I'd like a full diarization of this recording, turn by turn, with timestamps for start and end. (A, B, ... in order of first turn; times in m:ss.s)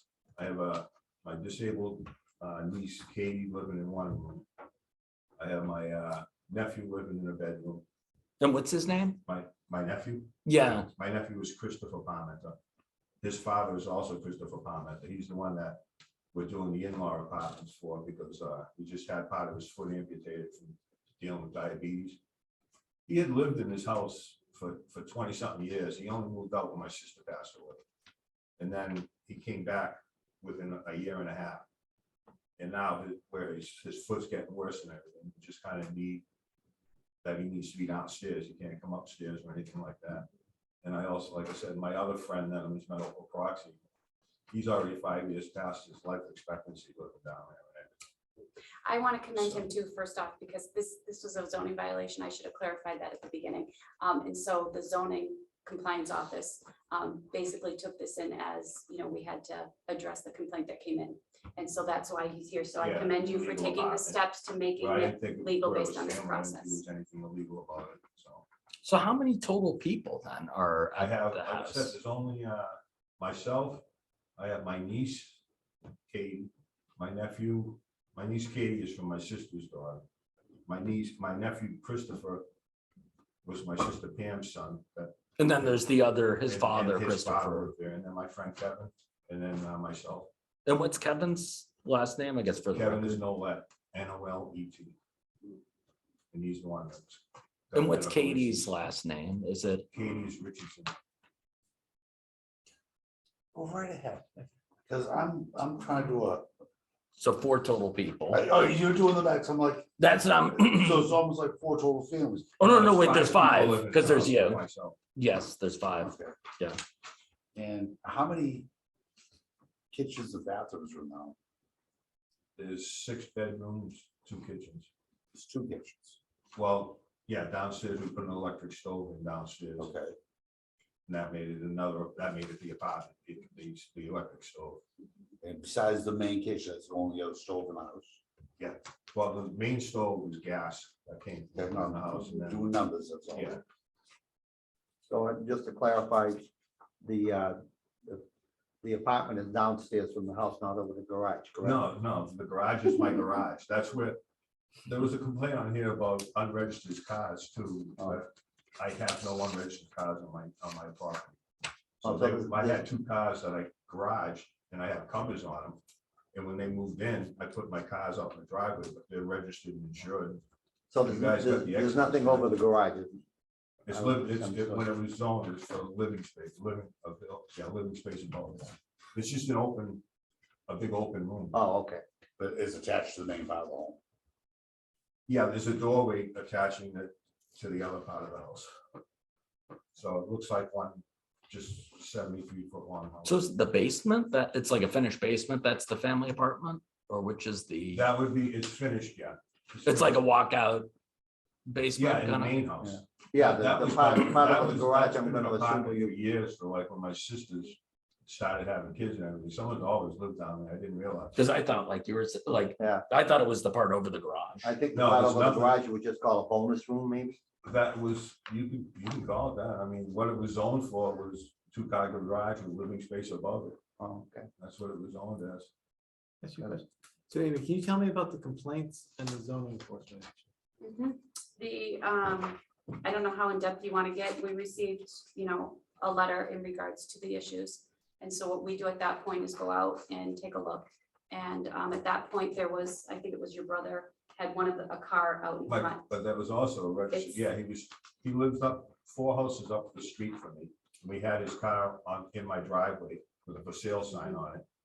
0:00.4-0:04.4 A
0:05.4-0:07.8 A
0:08.4-0:09.2 B
0:09.3-0:10.3 A
0:10.4-0:10.9 B
0:10.9-0:12.6 A
0:13.2-0:15.8 A
0:16.3-0:22.2 A
0:23.1-0:27.8 A
0:28.6-0:31.6 A
0:32.6-0:36.2 A
0:37.2-0:40.3 A
0:40.8-0:43.8 A
0:44.5-0:47.9 A
0:48.8-1:06.8 C
0:49.4-0:49.7 A
1:02.8-1:04.2 A
1:04.8-1:08.4 A
1:08.8-1:12.0 B
1:11.0-1:13.8 A
1:14.4-1:15.4 A
1:16.1-1:20.0 A
1:20.7-1:22.5 A
1:23.4-1:25.2 A
1:25.4-1:27.7 B
1:26.5-1:30.3 A
1:30.7-1:33.2 B
1:32.7-1:35.0 A
1:36.3-1:38.7 A
1:37.7-1:39.9 B
1:39.9-1:40.9 A
1:43.5-1:46.5 D
1:47.2-1:48.4 B
1:48.3-1:53.8 D
1:50.0-1:50.9 B
1:52.6-1:54.6 B
1:52.6-1:55.0 A
1:55.2-1:56.8 B
1:56.0-1:56.4 D
1:57.6-1:58.7 D
1:59.9-2:01.4 D
2:02.6-2:04.9 A
2:05.3-2:06.2 D
2:06.6-2:10.0 A
2:09.8-2:10.2 D
2:11.1-2:14.8 A
2:15.4-2:18.2 D
2:18.6-2:22.8 A
2:21.6-2:23.6 D
2:23.3-2:23.6 A
2:25.1-2:26.5 E
2:27.0-2:28.2 E
2:28.8-2:31.8 E
2:31.6-2:34.2 A
2:34.9-2:41.4 A
2:42.0-2:45.8 A
2:42.0-2:42.8 E
2:46.3-2:50.4 A
2:50.9-2:53.2 E
2:51.0-2:52.5 A
2:53.9-3:00.0 A
2:53.9-2:54.9 E
3:00.7-3:01.6 A
3:01.5-3:02.0 E
3:02.4-3:04.0 D
3:05.3-3:08.7 A
3:10.0-3:13.4 A
3:13.3-3:18.0 B
3:17.9-3:20.2 A
3:19.9-3:20.9 B
3:21.7-3:22.6 B
3:22.0-3:31.5 A
3:22.8-3:26.1 E
3:31.4-3:34.7 B
3:32.8-3:33.0 E
3:34.6-3:37.4 E
3:34.9-3:35.8 A
3:37.6-3:43.8 A
3:44.0-3:44.5 E
3:44.6-3:45.7 A
3:46.4-3:50.4 F
3:50.8-4:06.0 C
4:05.7-4:14.6 A
4:07.1-4:07.4 C